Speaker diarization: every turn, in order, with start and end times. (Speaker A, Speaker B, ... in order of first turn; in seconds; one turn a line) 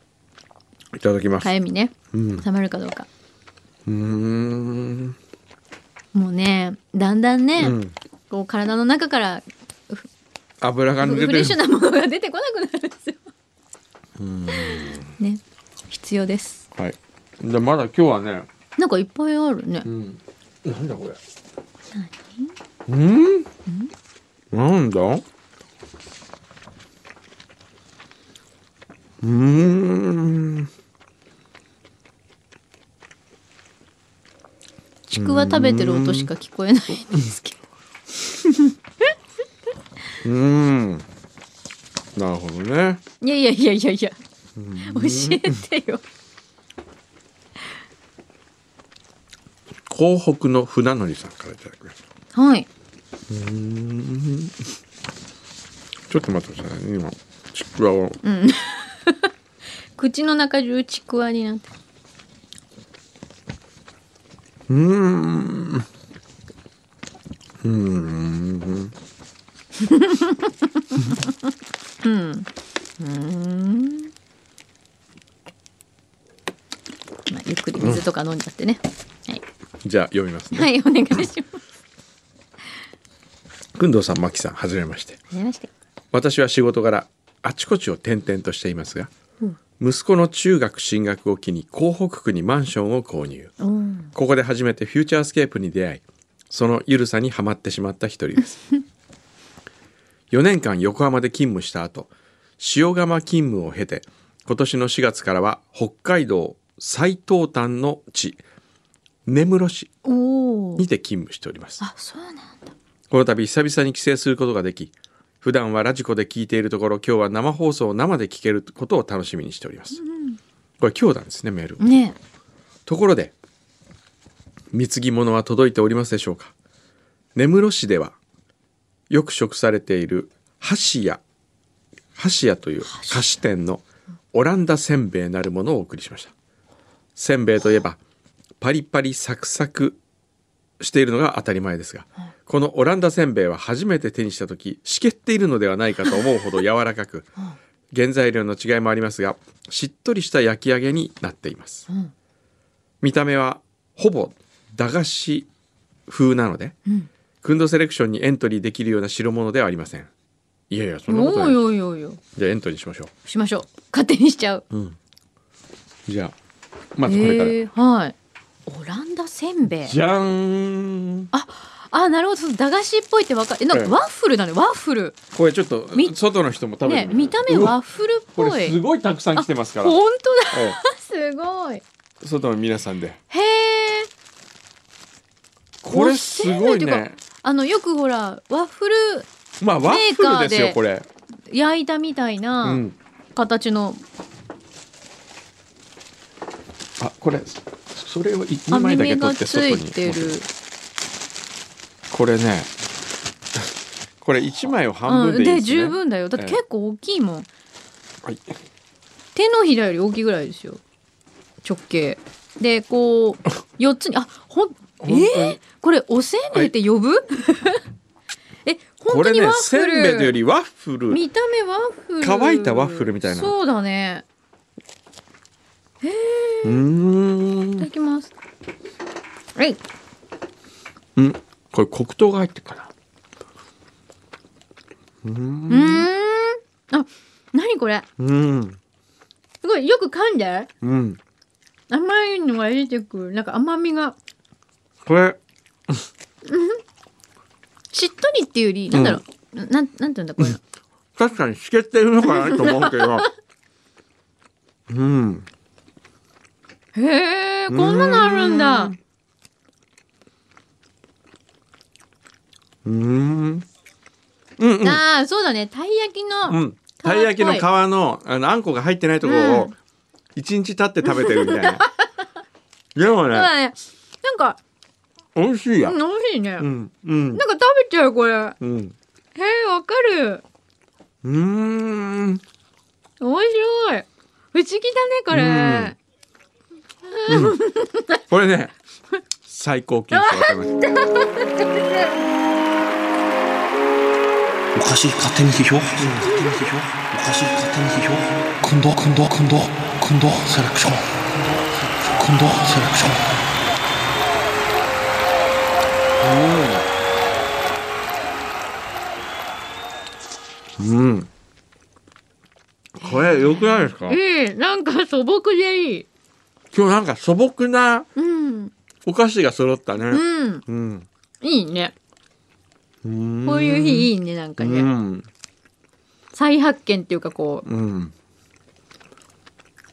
Speaker A: 0.9-1.5
Speaker B: 1.4-3.1
Speaker A: 2.1-2.4
Speaker A: 3.9-5.2
Speaker B: 6.1-7.8
Speaker A: 7.6-7.9
Speaker B: 8.3-10.1
Speaker A: 10.6-11.6
Speaker B: 11.0-13.2
Speaker A: 14.2-15.1
Speaker B: 14.5-16.6
Speaker A: 16.8-18.5
Speaker B: 18.8-19.9
Speaker A: 19.8-21.2
Speaker B: 21.9-22.5
Speaker A: 22.9-23.5
Speaker A: 24.5-25.2
Speaker A: 29.2-30.7
Speaker B: 35.1-37.6
Speaker A: 35.1-36.3
Speaker B: 38.5-39.1
Speaker A: 40.2-41.0
Speaker A: 42.1-43.0
Speaker B: 43.2-44.1
Speaker A: 44.6-45.6
Speaker B: 44.8-46.0
Speaker A: 49.9-52.0
Speaker B: 52.3-52.7
Speaker A: 53.3-54.6
Speaker A: 56.1-58.2
Speaker B: 58.2-59.3
Speaker B: 60.0-61.7
Speaker A: 64.7-65.8
Speaker A: 67.6-68.9
Speaker B: 69.8-71.3
Speaker B: 72.0-72.5
Speaker B: 73.0-74.1
Speaker B: 77.3-79.4
Speaker A: 77.8-78.0
Speaker A: 79.8-80.7
Speaker B: 80.5-81.5
Speaker A: 83.8-85.2
Speaker B: 85.3-85.7
Speaker A: 86.1-89.1
Speaker A: 89.8-93.5
Speaker B: 93.6-94.1
Speaker A: 94.1-98.6
Speaker A: 100.3-108.4
Speaker A: 109.2-109.9
Speaker B: 110.0-110.8
Speaker A: 110.8-111.8
Speaker B: 111.8-112.7
Speaker A: 113.1-120.0
Speaker B: 119.9-120.4
Speaker A: 120.8-121.8
Speaker B: 121.8-122.2
Speaker A: 122.8-123.3
Speaker A: 124.7-126.5
Speaker A: 127.3-128.2
Speaker A: 129.1-131.2
Speaker A: 132.2-136.3
Speaker B: 132.9-133.2
Speaker A: 137.2-138.0
Speaker A: 138.6-140.0
Speaker A: 140.8-147.3
Speaker A: 147.9-151.9
Speaker A: 153.0-155.5
Speaker A: 156.1-156.8
Speaker A: 157.4-160.1
Speaker A: 160.7-161.6
Speaker B: 161.1-162.2
Speaker A: 162.3-163.1
Speaker B: 163.2-164.6
Speaker A: 164.7-165.0
Speaker A: 166.1-166.3
Speaker A: 166.9-167.6
Speaker B: 167.0-168.1
Speaker B: 168.7-169.9
Speaker A: 169.8-171.3
Speaker B: 171.3-175.2
Speaker A: 175.3-177.8
Speaker B: 176.8-178.8
Speaker A: 178.3-179.9
Speaker B: 179.3-181.8
Speaker A: 180.5-180.8
Speaker A: 182.2-183.2
Speaker B: 183.3-184.1
Speaker A: 185.8-187.2
Speaker B: 185.9-189.3
Speaker A: 189.6-191.1
Speaker B: 189.8-190.8
Speaker B: 191.5-194.0
Speaker A: 192.6-192.9
Speaker A: 197.0-200.3
Speaker B: 198.7-200.5
Speaker A: 202.1-202.7
Speaker A: 204.2-206.6
Speaker B: 205.1-207.5
Speaker A: 208.2-208.5
Speaker B: 209.3-210.8
Speaker B: 211.6-217.8
Speaker A: 215.0-215.6
Speaker B: 218.6-220.3
Speaker A: 219.1-221.2
Speaker B: 221.1-224.2
Speaker A: 222.2-223.5
Speaker B: 226.0-226.8
Speaker A: 226.6-227.9
Speaker B: 227.8-228.3
Speaker A: 231.2-232.9
Speaker A: 235.2-236.1
Speaker B: 235.7-238.1
Speaker A: 238.2-238.8
Speaker B: 239.6-240.7
Speaker A: 240.8-241.2
Speaker B: 241.9-244.2
Speaker A: 245.0-246.1
Speaker B: 246.4-246.8
Speaker B: 247.9-250.6
Speaker A: 248.9-249.2
Speaker A: 251.2-253.3
Speaker B: 252.2-253.2
Speaker A: 254.9-255.4
Speaker B: 256.9-258.9
Speaker A: 257.7-259.0
Speaker A: 262.8-263.6
Speaker A: 264.6-265.0
Speaker B: 264.8-267.7
Speaker A: 266.5-269.7
Speaker B: 269.2-269.7
Speaker A: 270.3-271.9
Speaker B: 271.0-271.9
Speaker A: 272.9-273.5
Speaker B: 273.3-274.6
Speaker A: 275.3-276.0
Speaker B: 275.8-276.7
Speaker A: 276.6-277.4
Speaker B: 277.3-278.6
Speaker A: 278.6-278.9
Speaker B: 279.3-280.4
Speaker A: 281.2-282.4
Speaker B: 283.2-285.9
Speaker A: 285.3-285.9
Speaker B: 287.1-288.2
Speaker A: 287.3-287.6
Speaker A: 288.3-288.7
Speaker A: 289.5-290.7
Speaker B: 290.1-292.2
Speaker C: 294.7-303.4
Speaker A: 296.0-296.3
Speaker A: 306.2-306.9
Speaker A: 310.8-311.3
Speaker A: 313.0-314.2
Speaker B: 313.0-316.1
Speaker A: 316.7-318.1
Speaker B: 318.1-318.7
Speaker A: 319.0-321.1
Speaker B: 320.1-320.6
Speaker B: 321.4-321.9
Speaker A: 323.0-325.3
Speaker B: 323.4-324.9
Speaker B: 326.3-327.6
Speaker A: 327.6-328.1